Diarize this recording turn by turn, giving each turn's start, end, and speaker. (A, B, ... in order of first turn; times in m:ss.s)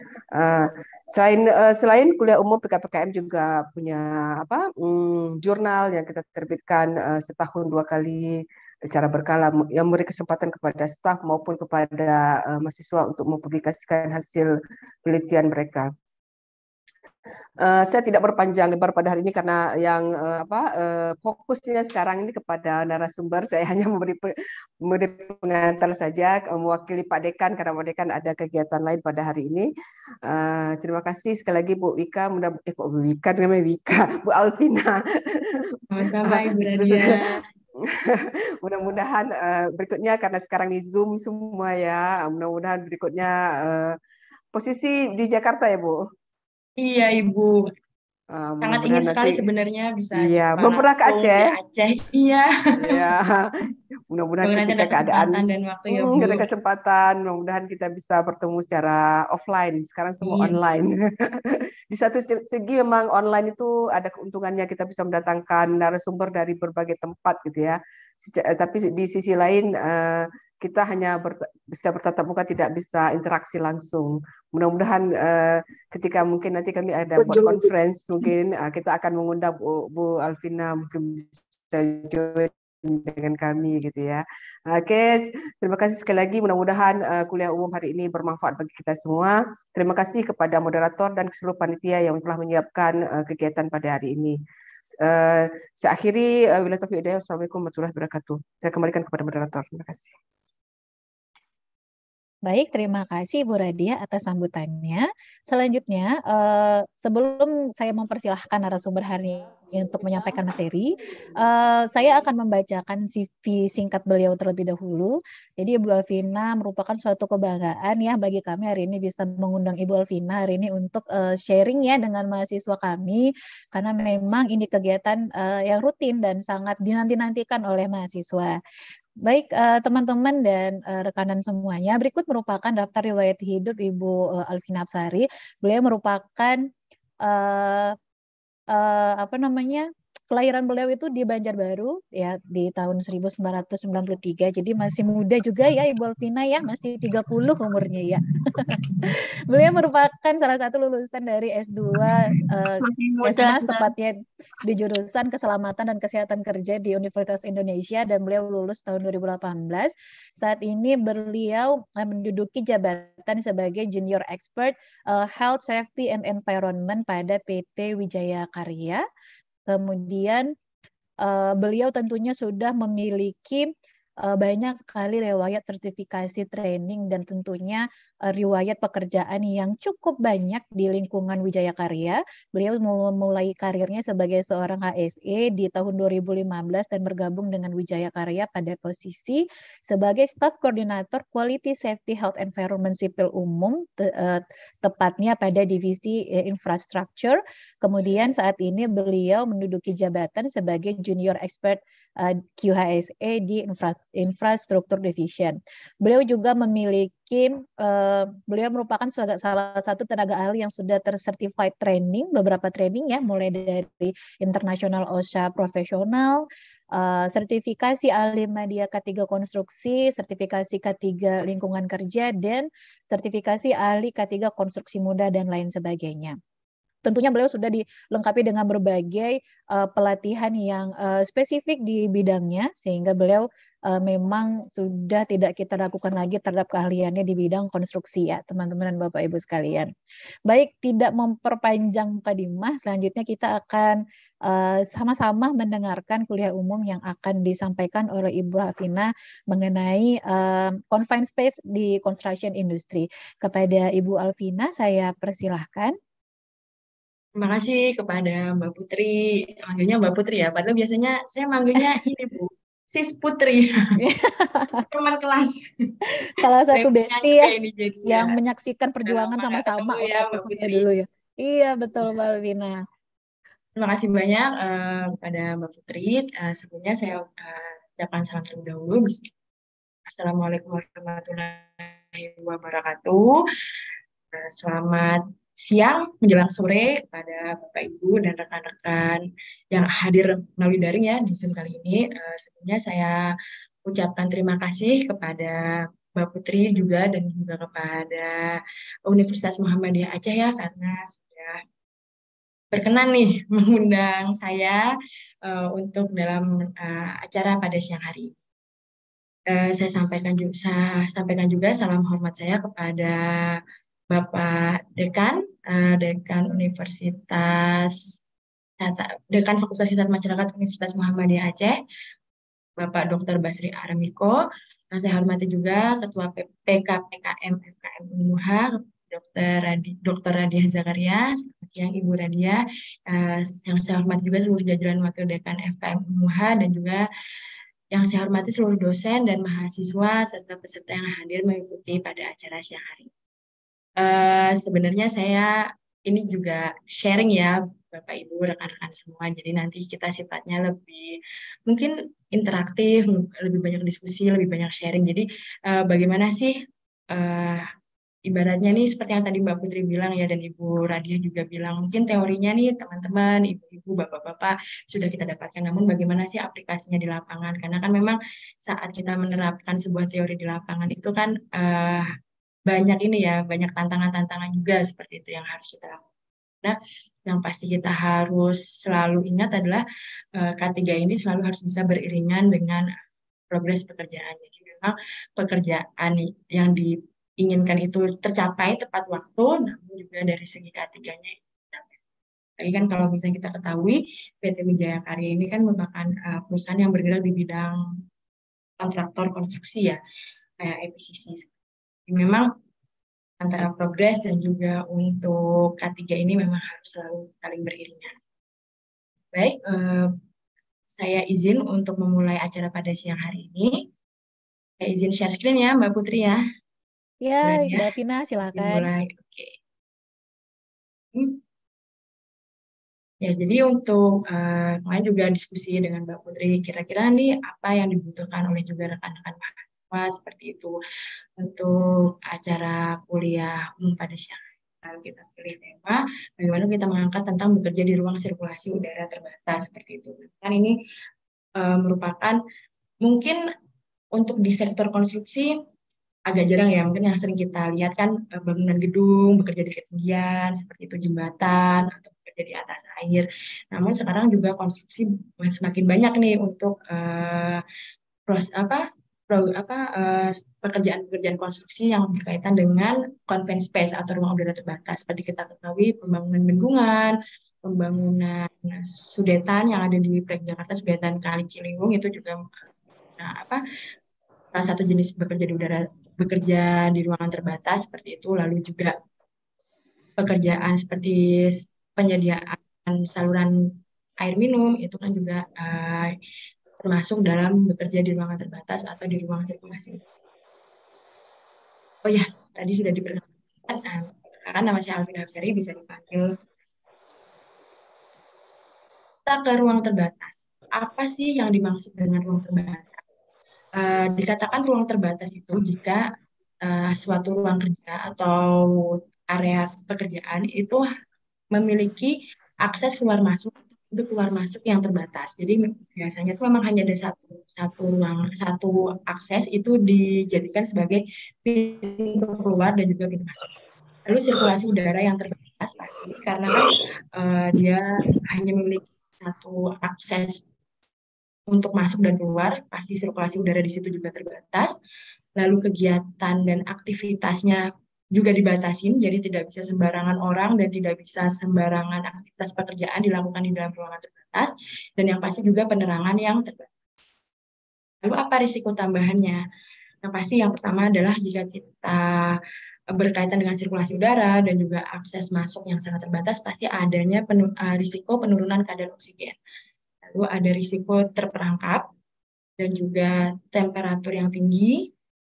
0:00.3-0:15.9 A
0:17.6-0:24.3 A
0:24.8-0:29.7 A
0:30.2-0:44.0 A
0:35.9-0:37.4 B
0:44.5-0:46.0 A
0:46.8-0:47.7 B
0:48.3-0:49.4 A
0:48.6-0:53.1 B
0:50.1-0:51.5 A
0:52.8-0:53.5 A
0:54.1-0:55.4 A
0:54.4-0:56.5 B
0:55.9-1:34.4 A
1:00.2-1:00.6 B
1:17.2-1:17.6 B
1:35.0-1:40.2 A
1:42.4-2:08.6 C
2:09.2-2:16.6 C
2:17.2-2:18.0 C
2:18.7-2:49.0 C
2:32.9-2:33.9 B
2:49.7-2:50.5 C
2:51.2-2:53.7 C
2:54.2-3:36.4 C
3:36.9-3:46.4 C
3:47.0-3:59.9 C
4:00.5-4:15.9 C
4:17.4-4:23.9 B
4:24.0-4:24.8 C
4:24.9-4:25.7 B
4:26.2-4:27.5 C
4:26.7-4:28.4 B
4:28.0-4:32.8 C
4:29.0-4:30.8 B
4:33.8-4:39.3 B
4:40.0-4:43.3 B
4:44.3-4:53.2 B
4:53.8-4:55.6 B
4:56.1-4:58.5 B
4:59.1-5:01.6 B
5:02.7-5:04.8 B
5:05.4-5:08.3 B
5:09.5-5:13.6 B
5:14.1-5:18.0 B
5:18.8-5:21.8 B
5:22.8-5:24.4 B
5:24.9-5:37.0 B
5:37.9-5:43.1 B
5:44.0-5:45.5 B
5:46.0-5:56.5 B
5:57.1-5:57.6 B
5:58.2-6:12.1 B
6:12.7-6:16.0 B
6:16.6-6:19.8 B
6:20.4-6:22.9 B
6:23.5-6:32.0 B
6:32.6-6:37.8 B
6:38.8-6:40.0 B
6:40.6-6:41.5 B
6:42.1-6:42.4 B
6:43.4-6:48.1 B
6:49.3-6:50.1 B
6:50.9-6:53.7 B
6:54.8-6:56.4 B
6:57.2-6:58.9 C
6:57.4-6:57.9 B
6:58.4-6:59.6 B
7:01.1-7:01.4 B
7:03.2-7:10.8 B
7:11.4-7:20.7 B
7:21.6-7:22.4 B
7:23.0-7:23.4 B
7:24.1-7:25.5 B
7:26.3-7:37.6 B
7:38.3-7:52.4 B
7:53.2-7:53.6 B
7:54.5-7:58.9 B
8:00.2-8:03.5 B
8:04.2-8:06.1 B
8:06.8-8:10.0 B
8:12.0-8:16.4 B
8:19.2-8:23.0 B
8:23.8-8:26.0 B
8:26.6-8:30.8 B
8:31.5-8:50.4 B
8:51.5-8:54.7 B
8:55.4-8:57.6 B
8:58.1-9:06.7 B
9:08.0-9:09.4 B
9:10.0-9:12.3 B
9:12.9-9:19.4 B
9:20.0-9:21.8 B
9:22.6-9:24.9 B